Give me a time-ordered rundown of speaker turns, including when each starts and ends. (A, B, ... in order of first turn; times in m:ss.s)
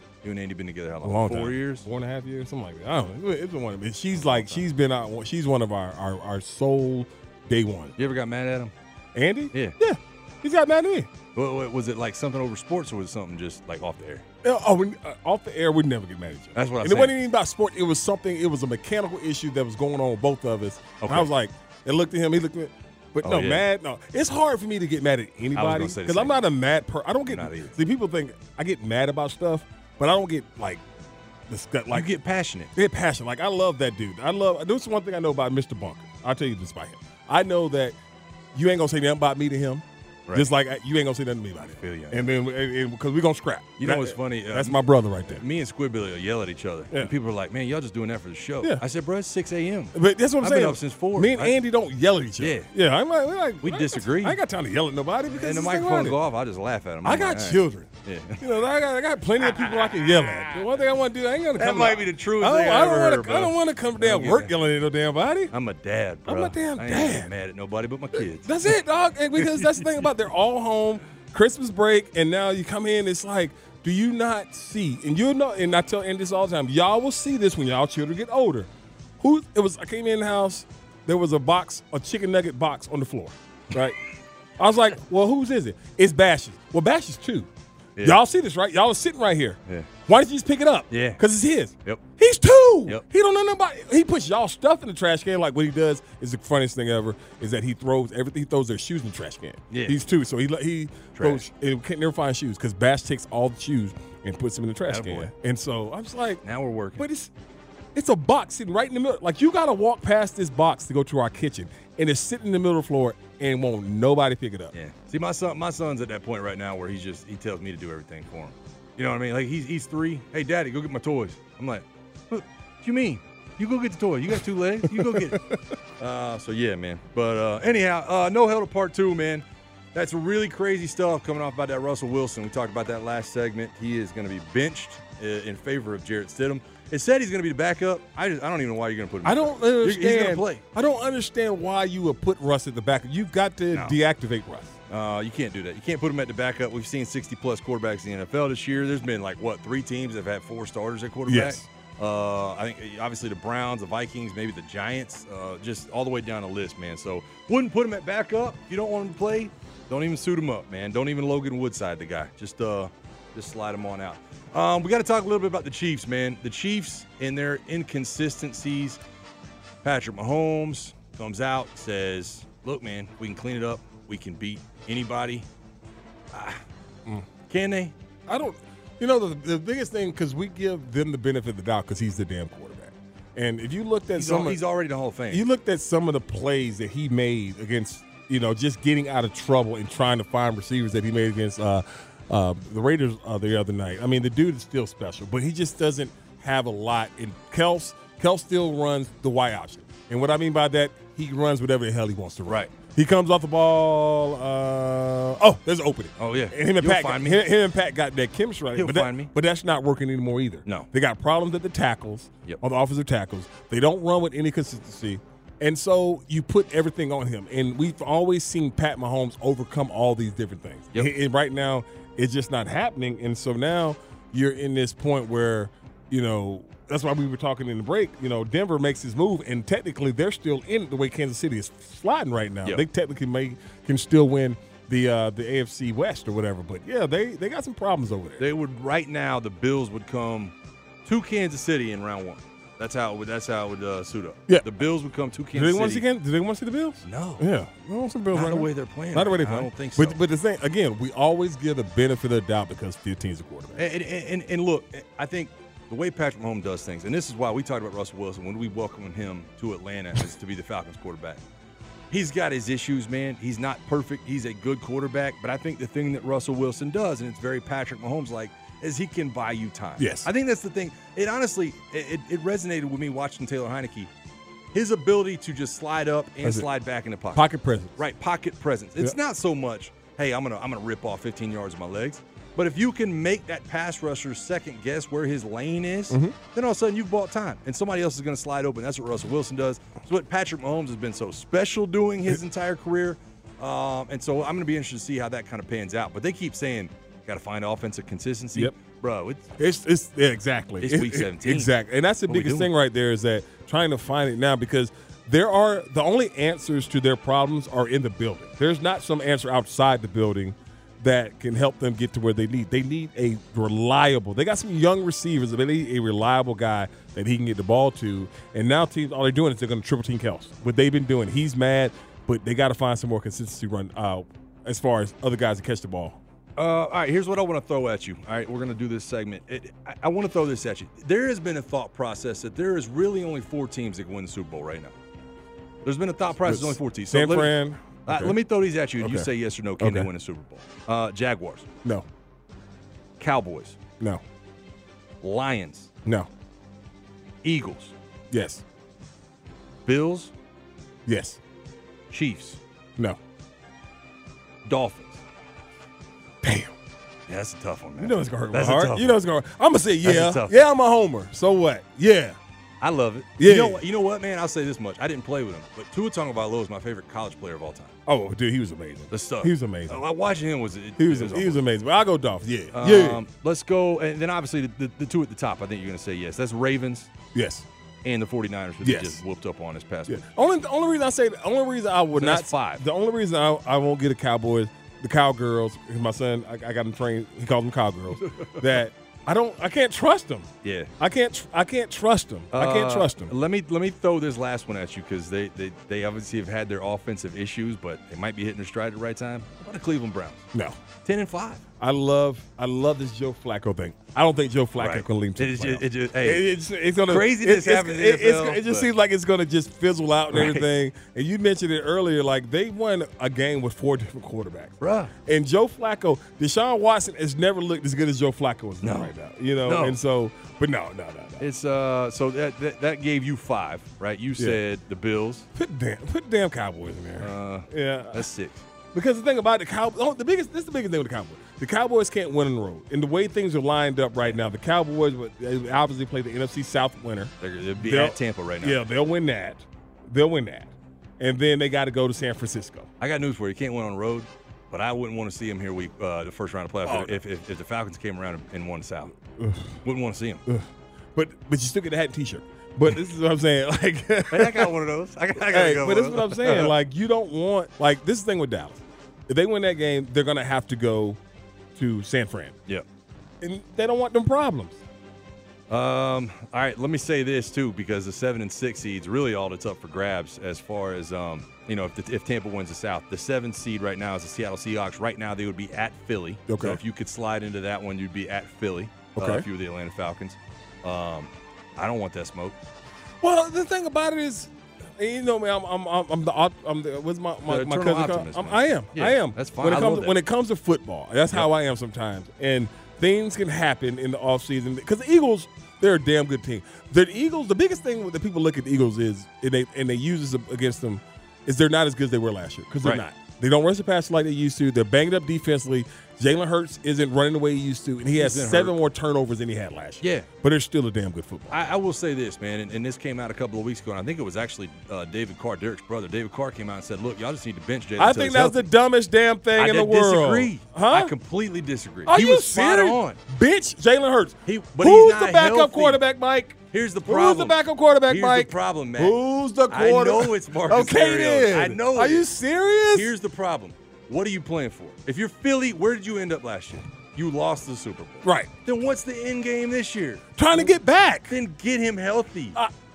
0:00.2-0:01.9 A
0:01.0-0:08.0 B
0:04.2-0:04.6 A
0:08.0-0:08.7 A
0:09.1-0:11.1 B
0:11.3-0:14.2 A
0:14.4-0:30.8 B
0:16.5-0:17.2 A
0:21.0-0:21.3 A
0:23.2-0:23.6 A
0:25.5-0:26.4 A
0:27.3-0:27.7 A
0:31.5-0:32.1 B
0:31.9-0:32.7 A
0:32.7-0:38.0 B
0:38.5-0:45.4 B
0:41.8-0:42.3 A
0:43.8-0:44.8 A
0:45.4-0:51.6 A
0:49.9-0:56.2 B
0:52.4-0:52.7 A
0:53.6-0:54.4 A
0:55.3-0:58.5 A
0:57.0-1:05.5 B
1:01.6-1:04.5 A
1:05.5-1:08.5 A
1:06.2-1:07.3 B
1:08.1-1:24.0 B
1:09.4-1:09.8 A
1:24.6-1:27.5 B
1:28.0-1:46.4 B
1:30.9-1:31.2 A
1:39.7-1:40.0 A
1:41.1-1:41.4 A
1:44.9-1:45.3 A
1:46.4-1:47.0 A
1:47.0-1:47.3 B
1:47.9-1:54.7 B
1:54.7-2:05.4 A
2:04.8-2:05.6 B
2:06.0-2:20.6 A
2:19.2-2:24.7 B
2:24.9-2:49.0 A
2:31.3-2:31.6 B
2:49.8-2:55.5 A
2:56.3-2:56.6 A
2:57.5-2:57.9 A
2:58.3-3:04.6 B
3:04.1-3:05.4 A
3:05.3-3:58.4 B
3:26.2-3:27.5 A
3:28.7-3:29.3 A
3:58.4-4:06.0 A
4:05.5-4:13.8 B
4:07.0-4:07.4 A
4:08.3-4:10.2 A
4:13.8-4:21.4 A
4:22.1-4:34.1 A
4:30.0-4:30.3 B
4:34.7-4:59.5 A
4:36.4-4:36.7 B
4:37.3-4:38.0 B
4:46.1-4:46.4 B
4:59.6-5:26.2 B
5:00.8-5:01.7 A
5:02.2-5:02.7 A
5:26.6-5:35.0 A
5:35.8-5:41.7 A
5:36.4-5:38.4 B
5:39.0-5:40.1 B
5:43.2-5:43.8 A
5:45.2-5:45.9 A
5:46.0-5:46.3 B
5:47.4-5:47.9 A
5:48.3-5:48.6 B
5:49.8-5:50.3 A
5:51.0-5:51.4 B
5:52.1-5:52.6 A
5:54.6-5:55.2 A
5:56.4-5:56.7 B
5:57.3-5:59.2 A
5:58.0-6:02.4 B
6:00.0-6:00.6 A
6:02.8-6:07.9 A
6:03.4-6:03.8 B
6:08.0-6:10.0 B
6:09.1-6:11.6 A
6:11.0-6:13.2 B
6:12.7-6:17.1 A
6:17.3-6:17.6 B
6:18.0-6:20.2 A
6:18.8-6:19.2 B
6:20.1-6:33.3 B
6:22.1-6:22.8 A
6:28.3-6:28.6 A
6:30.6-6:30.9 A
6:32.5-6:40.4 A
6:40.5-6:40.8 B
6:41.0-6:41.6 A
6:41.8-7:01.4 B
6:44.8-6:46.5 A
6:47.0-6:48.9 A
6:50.3-6:50.7 A
6:54.8-6:55.1 A
6:58.8-6:59.1 A
6:59.6-7:00.0 A
7:01.4-7:05.5 A
7:05.5-7:08.3 B
7:07.2-7:08.6 A
7:08.9-7:22.9 B
7:17.4-7:18.8 A
7:23.0-7:29.1 A
7:26.8-7:27.2 B
7:29.4-7:29.8 B
7:29.8-7:30.4 A
7:30.4-7:34.7 B
7:34.3-7:36.7 A
7:35.4-7:41.2 B
7:41.8-7:42.6 B
7:43.4-7:44.8 B
7:45.7-8:02.6 A
7:56.5-7:56.8 B
7:59.2-7:59.4 B
8:03.2-8:31.7 B
8:07.5-8:10.2 A
8:28.2-8:28.8 A
8:30.0-8:30.3 A
8:31.5-8:38.7 A
8:38.0-8:41.1 B
8:39.6-8:43.2 A
8:42.1-8:53.1 B
8:44.4-8:46.0 A
8:46.7-8:52.3 A
8:52.9-9:00.7 A
8:58.2-8:58.5 B
9:00.4-9:01.3 B
9:01.3-9:02.6 A